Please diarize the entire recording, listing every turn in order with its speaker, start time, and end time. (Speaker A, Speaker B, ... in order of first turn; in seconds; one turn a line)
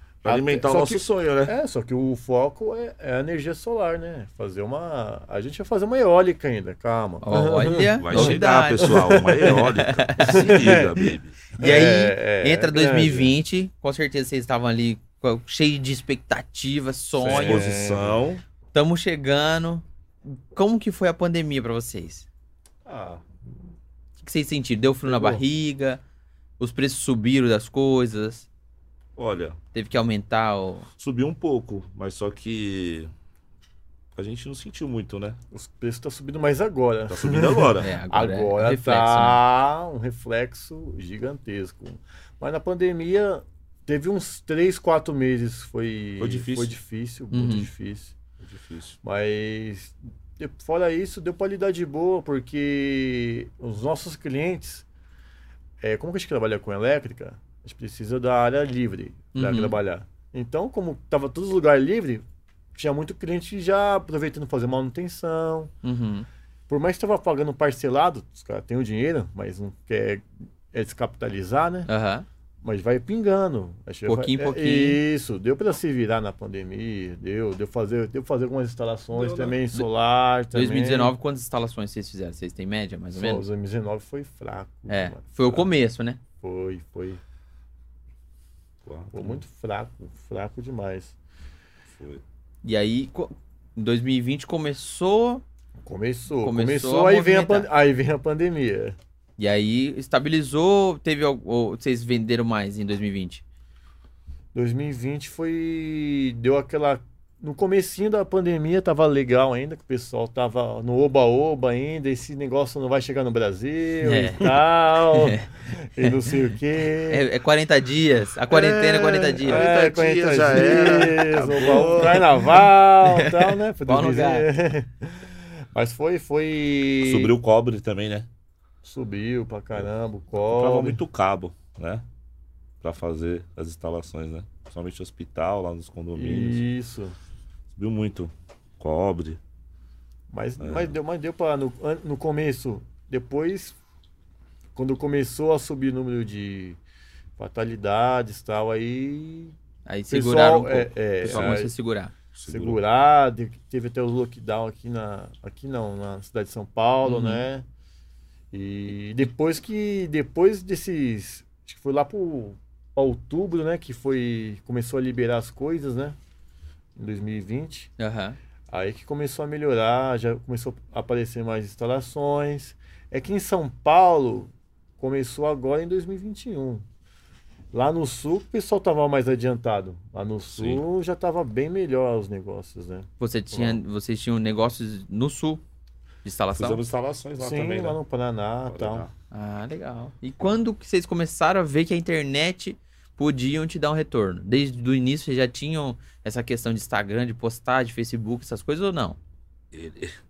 Speaker A: 0.2-1.6
Speaker B: 0.2-9.6
Speaker C: 7.2-10.6
Speaker A: 8.0-11.4
Speaker B: 10.2-13.3
Speaker C: 11.6-17.6
Speaker B: 17.2-18.2
Speaker A: 17.2-18.4
Speaker C: 18.7-22.3
Speaker A: 22.8-23.4
Speaker C: 24.2-26.0
Speaker B: 25.1-25.4
Speaker C: 26.6-28.5
Speaker A: 29.1-29.6
Speaker C: 29.7-30.9
Speaker A: 31.0-33.1
Speaker A: 34.1-35.4
Speaker B: 35.5-48.1
Speaker A: 37.1-37.9
Speaker C: 37.8-39.4
Speaker A: 46.2-46.8
Speaker C: 47.3-47.7
Speaker A: 48.4-49.0
Speaker B: 49.0-54.9
Speaker B: 55.8-62.2
Speaker C: 59.3-59.8
Speaker B: 62.7-65.7
Speaker C: 65.8-66.3
Speaker B: 66.7-71.9
Speaker C: 71.9-72.2
Speaker B: 72.6-81.1
Speaker C: 74.0-75.0
Speaker A: 79.1-79.6
Speaker C: 80.5-83.4
Speaker B: 83.1-85.7
Speaker C: 84.9-86.2
Speaker B: 86.4-87.2
Speaker A: 88.8-89.4
Speaker B: 89.1-91.1
Speaker A: 91.9-92.2
Speaker C: 92.6-95.4
Speaker B: 95.8-99.0
Speaker C: 96.4-97.7
Speaker C: 99.4-103.4
Speaker B: 104.5-117.2
Speaker C: 114.0-114.6
Speaker C: 115.1-115.5
Speaker C: 116.0-116.3
Speaker C: 117.0-119.7
Speaker A: 118.5-122.3
Speaker B: 119.4-127.3
Speaker C: 123.0-124.5
Speaker A: 127.0-128.3
Speaker B: 128.8-131.0
Speaker A: 129.8-132.0
Speaker A: 132.8-136.6
Speaker B: 136.1-137.1
Speaker A: 137.7-139.4
Speaker B: 140.3-143.8
Speaker A: 140.6-140.9
Speaker B: 144.7-146.8
Speaker B: 147.4-149.5
Speaker C: 149.8-152.1
Speaker B: 150.1-151.7
Speaker A: 151.3-151.6
Speaker A: 152.3-152.8
Speaker B: 152.4-157.6
Speaker C: 157.0-157.4
Speaker B: 158.5-166.2
Speaker B: 166.9-167.9
Speaker C: 168.0-168.4
Speaker B: 168.7-176.8
Speaker B: 177.7-183.8
Speaker A: 180.5-180.8
Speaker C: 183.2-185.6
Speaker C: 186.2-186.8
Speaker A: 186.5-188.0
Speaker B: 187.4-189.0
Speaker A: 188.7-189.1
Speaker C: 189.3-199.2
Speaker A: 199.7-200.2